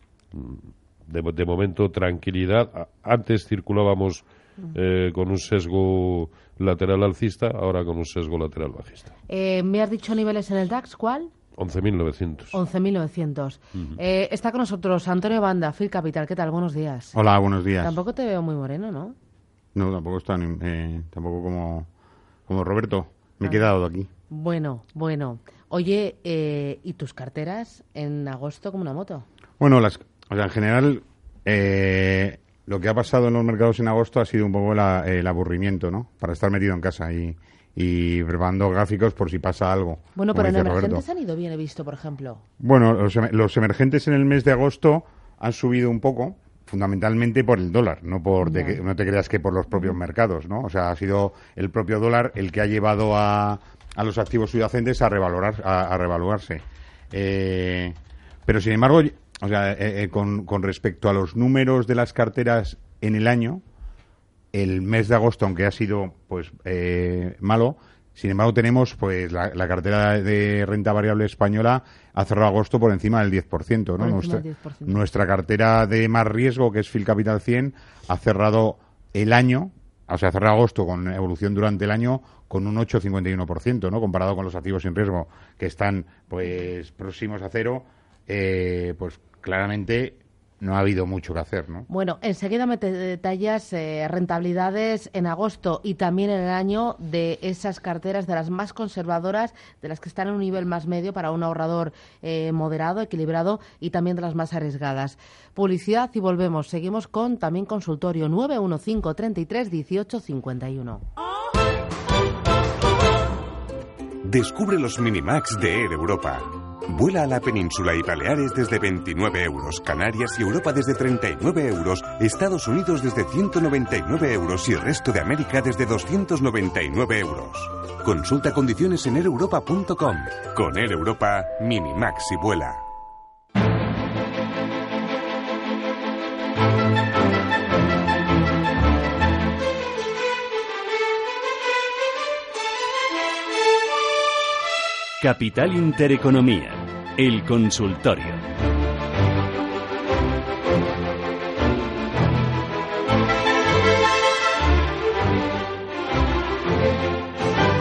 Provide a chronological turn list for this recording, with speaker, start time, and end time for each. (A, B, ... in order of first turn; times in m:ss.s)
0:00.3-0:09.1 A
0:09.3-0:11.3 B
0:11.6-0:12.6 A
0:12.5-0:17.2 B
0:17.1-0:18.0 C
0:17.8-0:19.2 B
0:19.8-0:21.9 C
0:22.5-0:24.1 C
0:24.3-0:29.2 B
0:29.6-0:41.0 C
0:40.2-0:42.4 B
0:42.6-0:56.6 C
0:48.4-0:48.8 B
0:57.1-1:03.6 C
1:04.5-1:31.9 C
1:14.0-1:15.0 B
1:31.9-1:51.0 B
1:54.2-2:12.8 D
2:25.2-2:28.4 E